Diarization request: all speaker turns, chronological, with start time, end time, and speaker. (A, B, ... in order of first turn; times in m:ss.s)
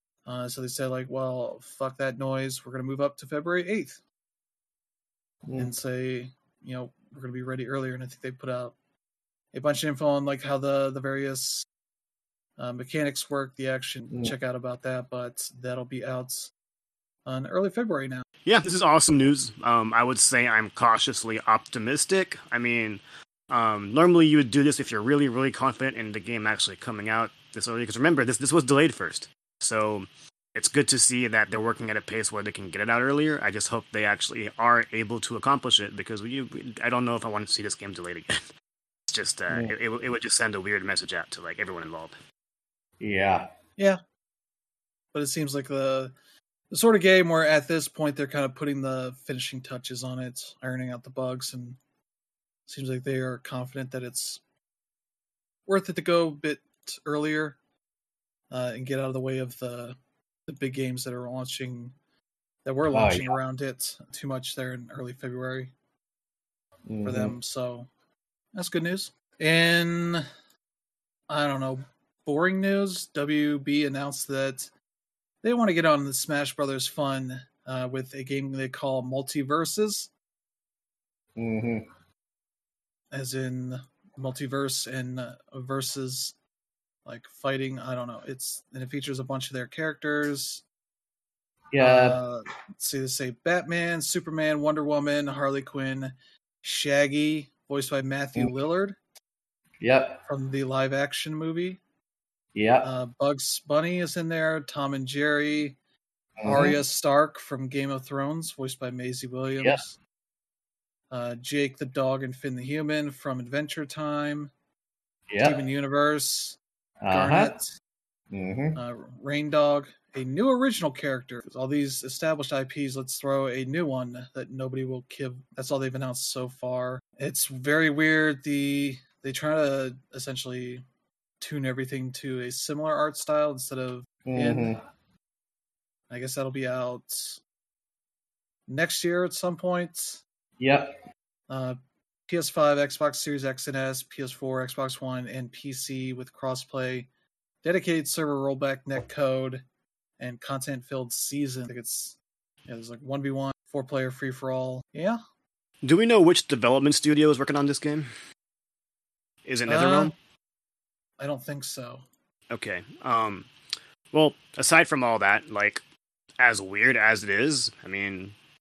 0:00.3-0:04.0 A
0:05.4-0:05.7 B
0:05.6-0:08.7 A
0:09.5-0:11.7 A
0:12.6-0:16.5 A
0:17.3-0:18.2 A
0:18.4-0:38.4 C
0:39.1-0:42.2 C
0:43.0-0:43.5 B
0:45.1-0:46.1 A
0:46.7-0:51.8 A
0:52.7-0:54.4 A
0:55.7-0:57.6 A
0:58.5-1:00.0 A
1:00.5-1:02.0 A
1:02.6-1:05.7 A
1:02.9-1:03.3 B
1:06.9-1:07.3 B
1:07.0-1:07.9 A
1:08.6-1:10.2 A
1:11.3-1:14.7 A
1:15.4-1:20.1 A
1:21.4-1:21.9 B
1:23.1-1:26.3 A
1:27.0-1:30.6 A
1:31.7-1:32.2 B
1:31.8-1:39.0 A
1:39.8-1:40.2 B
1:40.3-1:41.8 A
1:42.6-1:42.9 B
1:42.8-1:45.8 A
1:46.4-1:46.8 B
1:46.4-1:50.0 A
1:51.1-1:54.5 A
1:55.3-1:55.6 B
1:55.4-1:56.6 A
1:57.0-1:57.5 B
1:57.1-1:57.7 A
1:58.3-1:58.8 B
1:58.7-2:10.8 A
2:11.4-2:14.7 A
2:14.2-2:14.8 B
2:16.1-2:17.4 A
2:18.7-2:20.2 A
2:20.6-2:21.0 B
2:21.5-2:21.8 A
2:22.3-2:27.1 A
2:27.6-2:29.6 A
2:30.2-2:35.2 A
2:35.8-2:38.1 C
2:39.4-2:40.1 C
2:39.7-2:40.1 A
2:41.2-2:42.0 A
2:42.5-2:43.5 C
2:44.1-2:45.8 C
2:46.4-2:48.3 C